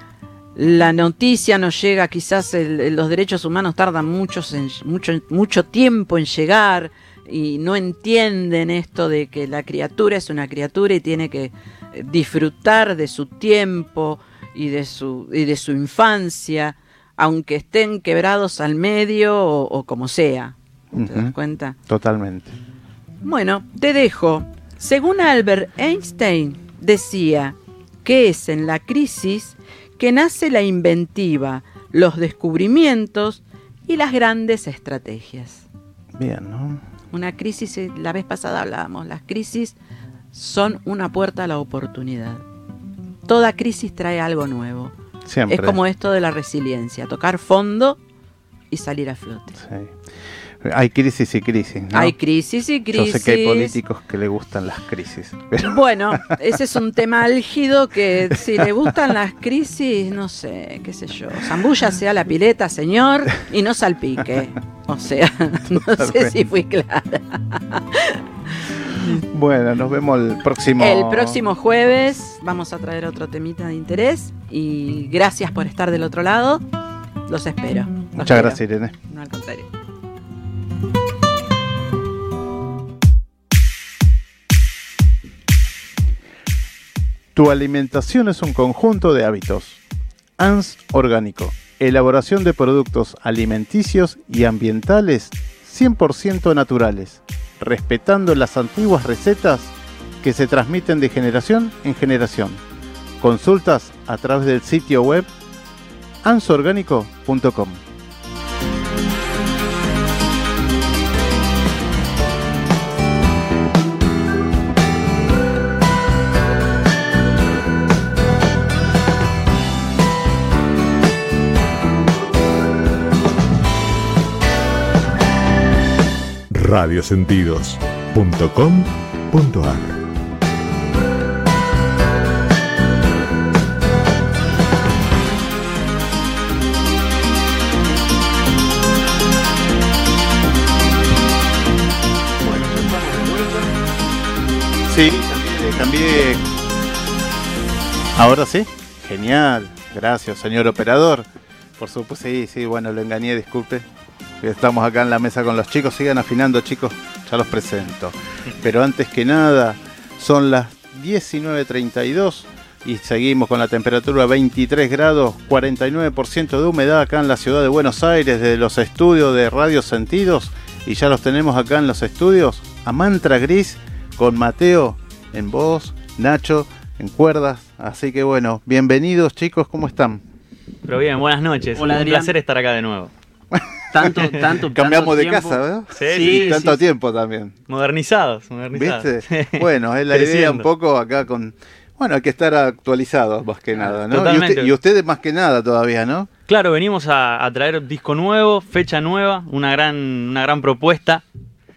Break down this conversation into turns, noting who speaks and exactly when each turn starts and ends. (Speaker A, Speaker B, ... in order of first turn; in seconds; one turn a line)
Speaker A: 0.6-21.8
Speaker B: 20.9-21.3
Speaker B: 21.9-22.5
Speaker A: 23.2-35.6
Speaker B: 36.1-36.8
Speaker A: 37.1-39.8
Speaker A: 40.3-42.4
Speaker A: 43.3-44.9
Speaker B: 45.2-45.8
Speaker A: 45.5-48.0
Speaker A: 48.7-49.6
Speaker B: 49.6-49.9
Speaker B: 50.6-52.1
Speaker A: 51.9-53.8
Speaker B: 52.9-56.3
Speaker A: 55.6-68.2
Speaker B: 65.7-66.3
Speaker B: 69.1-71.4
Speaker A: 70.8-76.6
Speaker A: 77.3-79.7
Speaker B: 78.1-78.9
Speaker B: 87.3-89.8
Speaker B: 90.4-102.6
Speaker B: 103.2-105.3
Speaker B: 106.2-107.8
Speaker C: 126.5-130.0
Speaker B: 142.4-143.7
Speaker B: 144.8-146.4
Speaker B: 148.2-151.2
Speaker B: 151.8-153.8
Speaker B: 154.4-180.2
Speaker D: 180.8-183.1
Speaker E: 181.8-182.3
Speaker E: 183.9-186.8
Speaker B: 184.3-187.5
Speaker D: 186.0-186.7
Speaker D: 187.7-190.7
Speaker B: 188.7-196.3
Speaker D: 194.0-194.7
Speaker D: 196.5-201.2